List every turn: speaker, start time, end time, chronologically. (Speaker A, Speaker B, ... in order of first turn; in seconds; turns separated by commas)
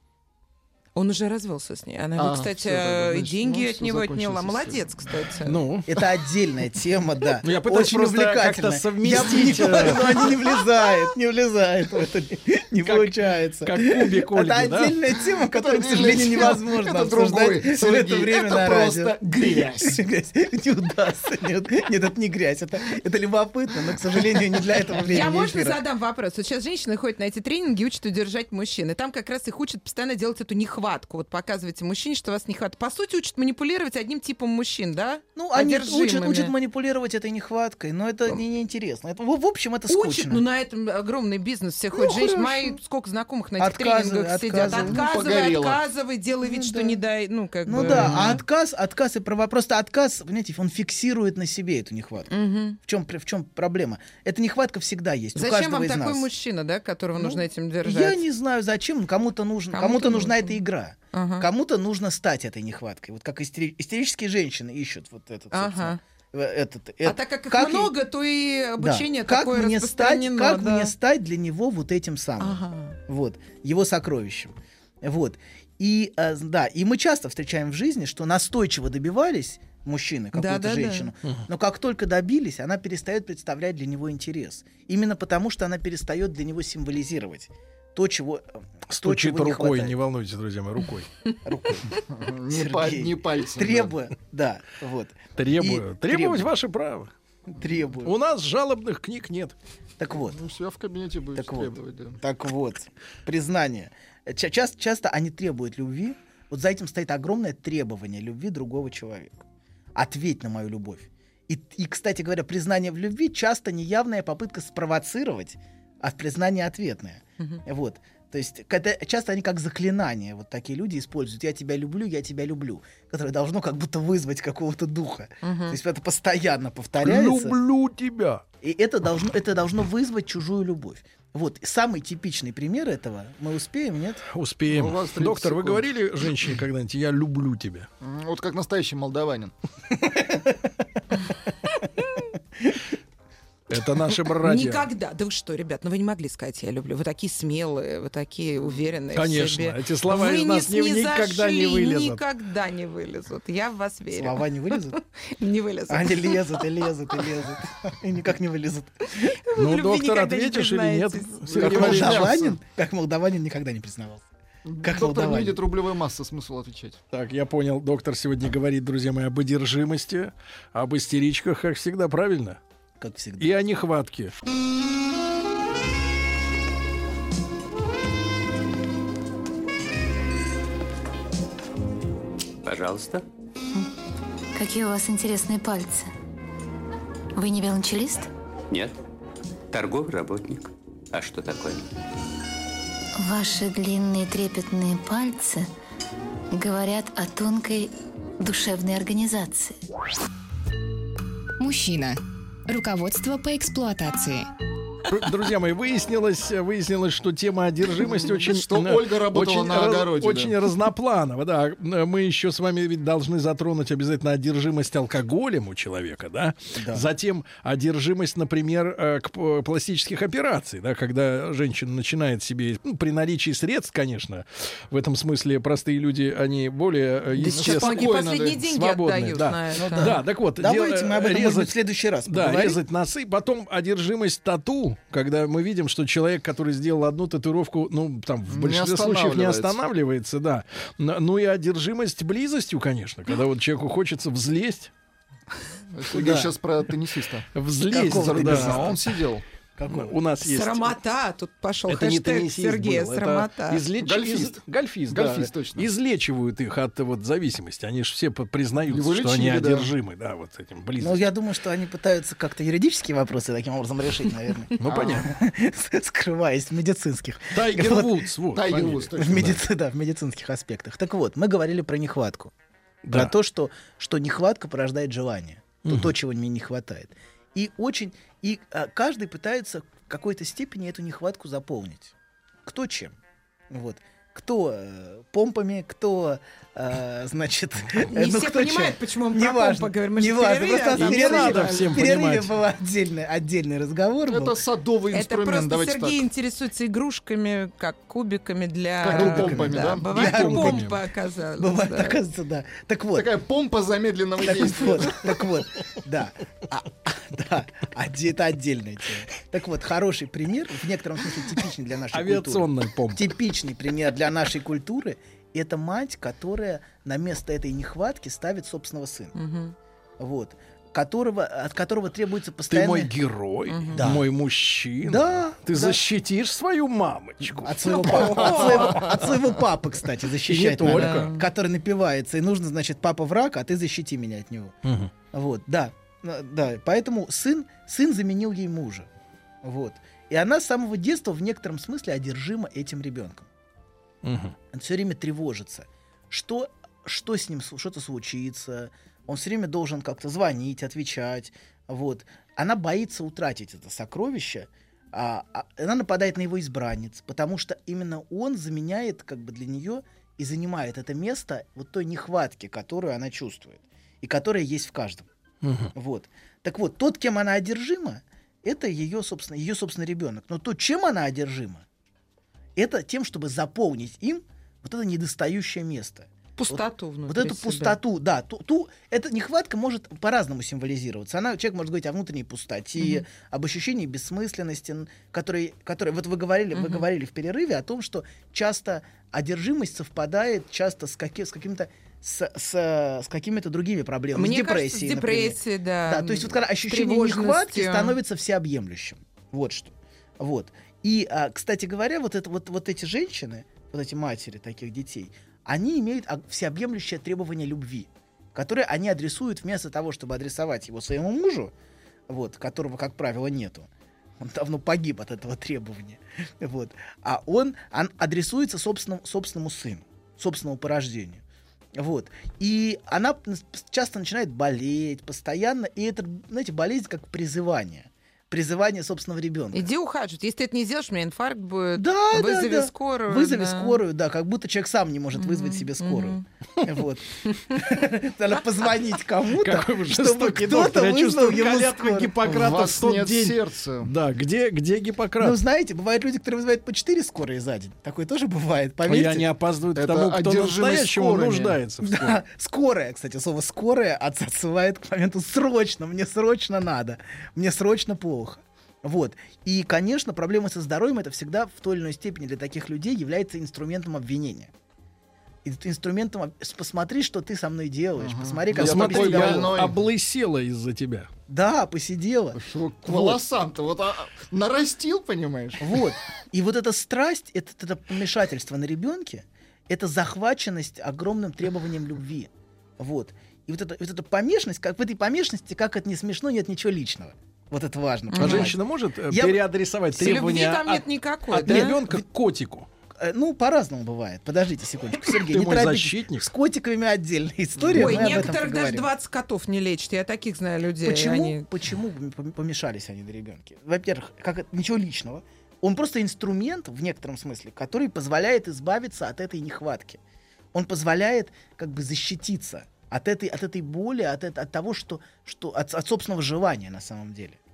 Speaker A: 0.9-5.6, Speaker B: 2.1-5.3, Speaker C: 5.4-5.9, Speaker D: 5.9-25.8, Speaker C: 7.4-10.3, Speaker C: 12.8-15.0, Speaker B: 15.5-20.0, Speaker A: 25.0-36.5, Speaker D: 35.4-40.4, Speaker A: 39.9-48.4, Speaker D: 41.9-42.8, Speaker D: 43.6-45.1, Speaker B: 44.6-45.8, Speaker D: 46.4-47.0, Speaker D: 47.6-52.3, Speaker B: 47.7-48.4, Speaker A: 52.3-52.8, Speaker D: 52.8-56.3, Speaker A: 55.3-58.2, Speaker D: 57.2-67.9, Speaker A: 59.7-60.6, Speaker A: 61.1-61.5, Speaker A: 65.5-66.0, Speaker A: 67.0-70.9, Speaker D: 68.8-90.0, Speaker A: 72.4-73.0, Speaker A: 80.3-81.1, Speaker C: 88.9-91.1, Speaker D: 91.4-91.9, Speaker B: 92.1-93.9, Speaker D: 92.5-96.5, Speaker C: 95.4-97.1, Speaker D: 97.5-98.1, Speaker C: 98.0-99.5, Speaker D: 100.0-100.4, Speaker B: 100.1-102.2, Speaker D: 101.3-109.4, Speaker D: 109.9-127.5, Speaker A: 125.4-125.8, Speaker C: 127.0-128.4, Speaker D: 128.6-134.2, Speaker C: 134.2-137.9, Speaker B: 134.7-135.9, Speaker B: 138.0-139.5, Speaker D: 140.1-140.3, Speaker C: 143.7-144.9, Speaker A: 144.4-156.6, Speaker C: 149.1-152.2, Speaker D: 154.1-155.0, Speaker D: 155.9-159.3, Speaker A: 159.4-161.5, Speaker C: 159.5-162.3, Speaker B: 161.5-162.6, Speaker D: 161.6-164.2, Speaker B: 164.7-167.0, Speaker D: 164.8-165.6, Speaker C: 167.1-172.6, Speaker D: 173.0-173.5, Speaker C: 173.4-174.3, Speaker E: 182.6-183.2, Speaker F: 184.5-186.1, Speaker F: 187.3-188.3, Speaker E: 188.7-188.9, Speaker E: 189.7-191.9, Speaker F: 193.2-195.7, Speaker F: 196.5-199.8, Speaker G: 201.6-204.5, Speaker C: 205.1-231.8, Speaker B: 208.2-210.6, Speaker D: 216.7-217.1, Speaker A: 227.4-230.2, Speaker B: 227.5-228.6, Speaker D: 229.8-232.8, Speaker C: 232.3-244.9, Speaker B: 238.5-239.8, Speaker B: 245.9-249.4, Speaker D: 246.1-246.5, Speaker C: 247.5-249.0, Speaker D: 247.9-248.9, Speaker D: 249.8-250.1, Speaker C: 249.9-250.9, Speaker A: 250.4-253.8, Speaker C: 251.9-261.2, Speaker B: 254.0-255.9, Speaker B: 258.9-259.9, Speaker D: 261.0-268.2, Speaker C: 264.8-265.3, Speaker B: 264.8-265.3, Speaker C: 267.5-269.6, Speaker B: 268.5-269.6, Speaker D: 269.2-272.5, Speaker C: 273.0-273.3, Speaker D: 273.1-282.1, Speaker C: 275.9-276.1, Speaker D: 282.6-283.1, Speaker D: 283.7-294.6, Speaker A: 288.1-292.0, Speaker C: 290.9-292.5, Speaker B: 294.3-296.2, Speaker A: 295.1-302.2, Speaker B: 299.0-300.1, Speaker D: 299.1-300.9, Speaker C: 300.1-301.0, Speaker D: 301.6-303.3, Speaker B: 303.1-305.4, Speaker D: 304.4-319.4, Speaker C: 312.1-313.3, Speaker A: 319.3-319.7, Speaker D: 320.2-323.1, Speaker C: 322.7-329.4, Speaker A: 323.7-324.0, Speaker D: 323.9-324.2, Speaker D: 325.0-326.0, Speaker D: 327.4-334.7, Speaker A: 328.1-329.0, Speaker C: 330.4-331.3, Speaker A: 330.9-331.4, Speaker C: 334.8-335.1, Speaker D: 335.3-339.1, Speaker D: 339.6-343.5, Speaker C: 344.2-344.5, Speaker D: 344.7-365.3, Speaker C: 365.6-365.9, Speaker D: 365.9-371.8, Speaker D: 372.8-411.7, Speaker A: 376.6-378.0, Speaker A: 383.0-383.2, Speaker A: 386.7-387.0, Speaker A: 394.3-398.2, Speaker D: 412.3-413.9, Speaker D: 414.4-421.4, Speaker D: 422.0-429.9, Speaker A: 429.7-434.0, Speaker D: 431.9-442.4, Speaker A: 435.3-436.4, Speaker A: 437.5-437.9, Speaker C: 439.5-445.6, Speaker B: 442.4-444.1, Speaker D: 445.4-449.5, Speaker C: 449.1-452.4, Speaker B: 449.9-451.8, Speaker D: 452.0-464.7, Speaker D: 465.6-469.8, Speaker B: 468.2-470.0, Speaker C: 468.7-471.3, Speaker D: 471.5-473.4, Speaker B: 472.5-476.0, Speaker D: 475.8-489.6, Speaker A: 488.3-488.7, Speaker C: 488.4-492.9, Speaker A: 490.1-492.0, Speaker D: 491.6-492.1, Speaker D: 493.2-499.1, Speaker C: 495.2-496.5, Speaker C: 497.9-498.4, Speaker A: 497.9-501.6, Speaker D: 501.0-510.2, Speaker D: 510.7-517.6